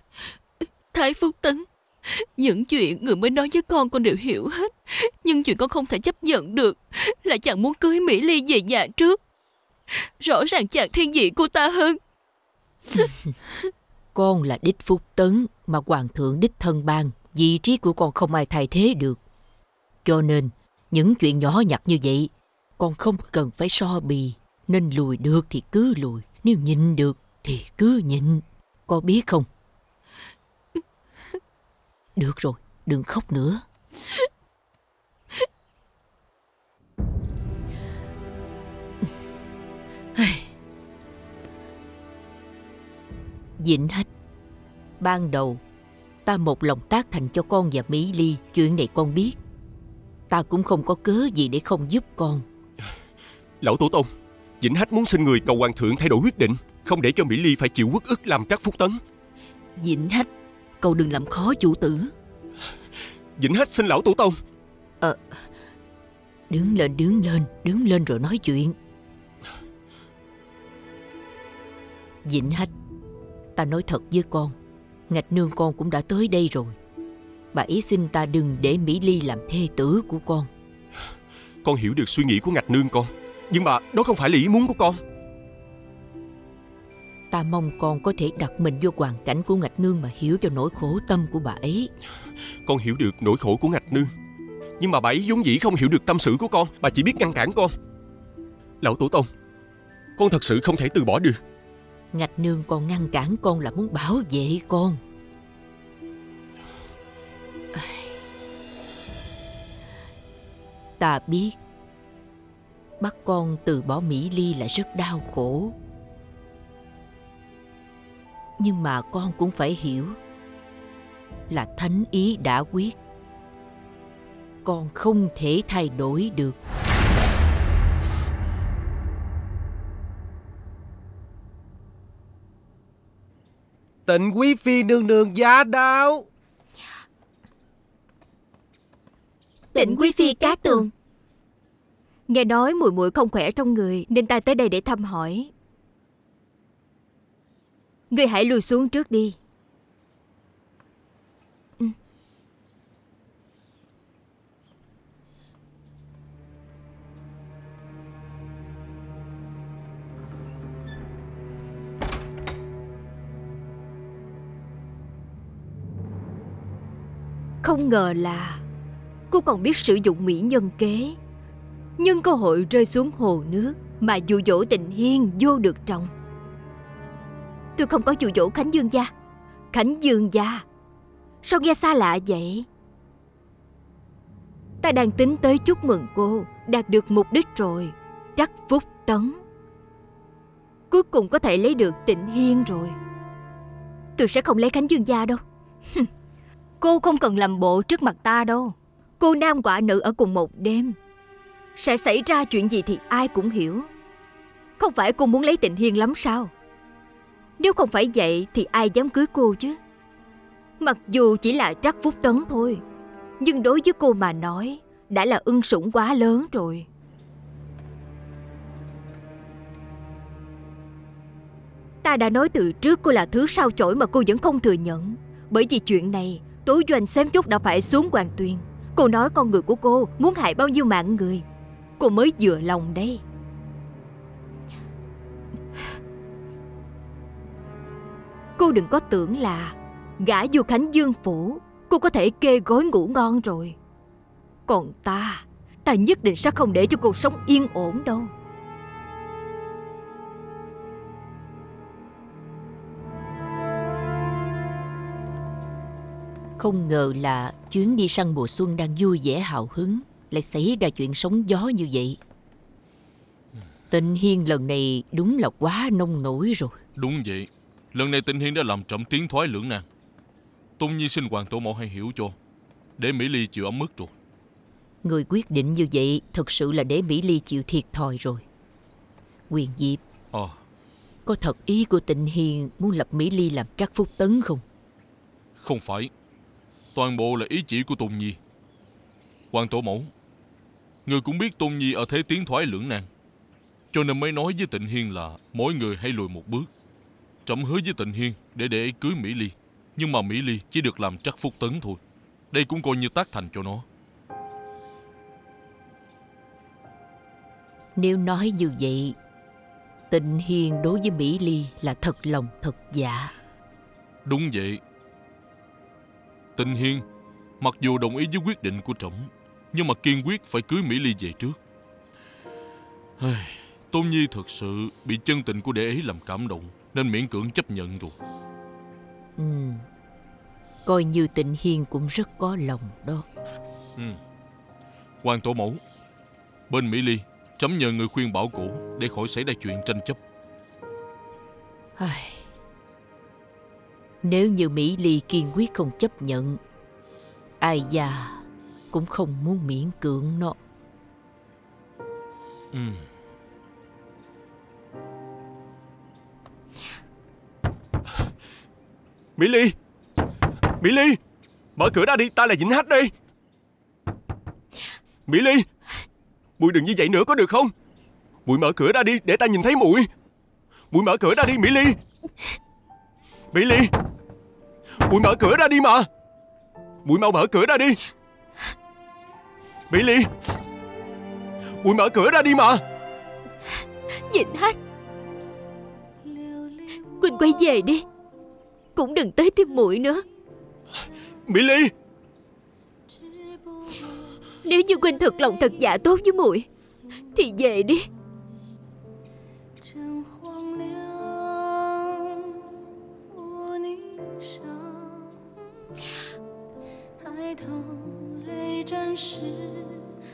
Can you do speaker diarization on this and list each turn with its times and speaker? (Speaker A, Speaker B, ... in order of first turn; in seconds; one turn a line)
Speaker A: 0.9-9.2
Speaker A: 10.2-12.0
Speaker B: 14.2-19.2
Speaker B: 20.1-29.5
Speaker B: 32.2-33.6
Speaker B: 40.2-40.5
Speaker B: 43.6-44.1
Speaker B: 45.0-45.6
Speaker B: 46.2-49.4
Speaker B: 50.3-52.5
Speaker C: 53.6-54.1
Speaker C: 54.6-59.0
Speaker A: 59.8-60.3
Speaker A: 60.8-62.1
Speaker C: 63.4-64.4
Speaker B: 66.5-68.8
Speaker B: 72.2-72.7
Speaker B: 73.6-74.6
Speaker B: 75.1-76.8
Speaker B: 77.5-80.5
Speaker C: 81.6-85.0
Speaker B: 87.3-91.9
Speaker C: 92.7-94.1
Speaker C: 94.8-97.7
Speaker C: 98.8-99.3
Speaker C: 100.2-101.4
Speaker B: 102.1-105.0
Speaker B: 111.0-111.6
Speaker B: 113.0-115.8
Speaker B: 118.6-120.2
Speaker B: 121.5-123.0
Speaker B: 124.6-126.6
Speaker D: 134.1-136.3
Speaker B: 139.7-140.9
Speaker E: 139.8-140.9
Speaker E: 142.3-145.5
Speaker E: 148.1-149.4
Speaker E: 167.6-168.6
Speaker E: 169.3-171.2
Speaker E: 172.0-176.1
Speaker E: 177.8-179.1
Speaker E: 179.7-180.7
Speaker E: 181.4-182.7
Speaker E: 184.8-189.4
Speaker E: 190.9-192.9
Speaker E: 194.2-195.4
Speaker E: 196.8-201.0
Speaker E: 201.8-203.9
Speaker E: 204.8-206.5
Speaker E: 207.6-209.8
Speaker E: 210.8-212.8
Speaker E: 213.4-216.9
Speaker E: 222.0-231.4
Speaker E: 232.0-233.2
Speaker E: 238.6-243.8
Speaker E: 244.7-248.3
Speaker B: 256.6-262.2
Speaker B: 263.9-266.8
Speaker F: 267.0-269.9
Speaker F: 270.8-272.4
Speaker F: 273.0-274.1
Speaker B: 275.0-278.4
Speaker B: 279.5-280.0
Speaker F: 280.3-280.6
Speaker B: 281.3-284.6
Speaker F: 285.6-286.1
Speaker F: 286.9-288.4
Speaker F: 289.5-290.1
Speaker F: 291.1-293.1
Speaker F: 293.9-296.7
Speaker F: 297.5-302.0
Speaker F: 302.5-303.9
Speaker B: 308.0-309.2
Speaker B: 310.1-313.3
Speaker F: 314.3-314.8
Speaker F: 316.6-317.0
Speaker F: 317.6-321.6
Speaker F: 323.2-328.1
Speaker B: 329.4-329.9
Speaker B: 330.9-333.3
Speaker F: 335.2-335.8
Speaker F: 336.7-340.2
Speaker B: 342.0-342.4
Speaker B: 344.2-346.6
Speaker B: 347.6-350.6
Speaker F: 352.7-353.1
Speaker C: 359.4-359.8
Speaker C: 360.8-361.2
Speaker C: 361.8-363.1
Speaker C: 365.3-365.7
Speaker C: 366.6-367.7
Speaker C: 368.5-370.1
Speaker C: 370.9-372.0
Speaker C: 373.5-373.9
Speaker C: 375.0-376.1
Speaker C: 377.1-378.0
Speaker C: 379.9-380.3
Speaker C: 381.8-382.8
Speaker E: 384.3-384.8
Speaker G: 386.2-387.9
Speaker E: 387.2-388.0
Speaker E: 389.0-390.2
Speaker C: 391.5-391.9
Speaker G: 393.1-394.5
Speaker E: 394.6-396.7
Speaker G: 395.1-395.9
Speaker E: 397.4-398.1
Speaker G: 399.8-405.4
Speaker G: 407.2-410.1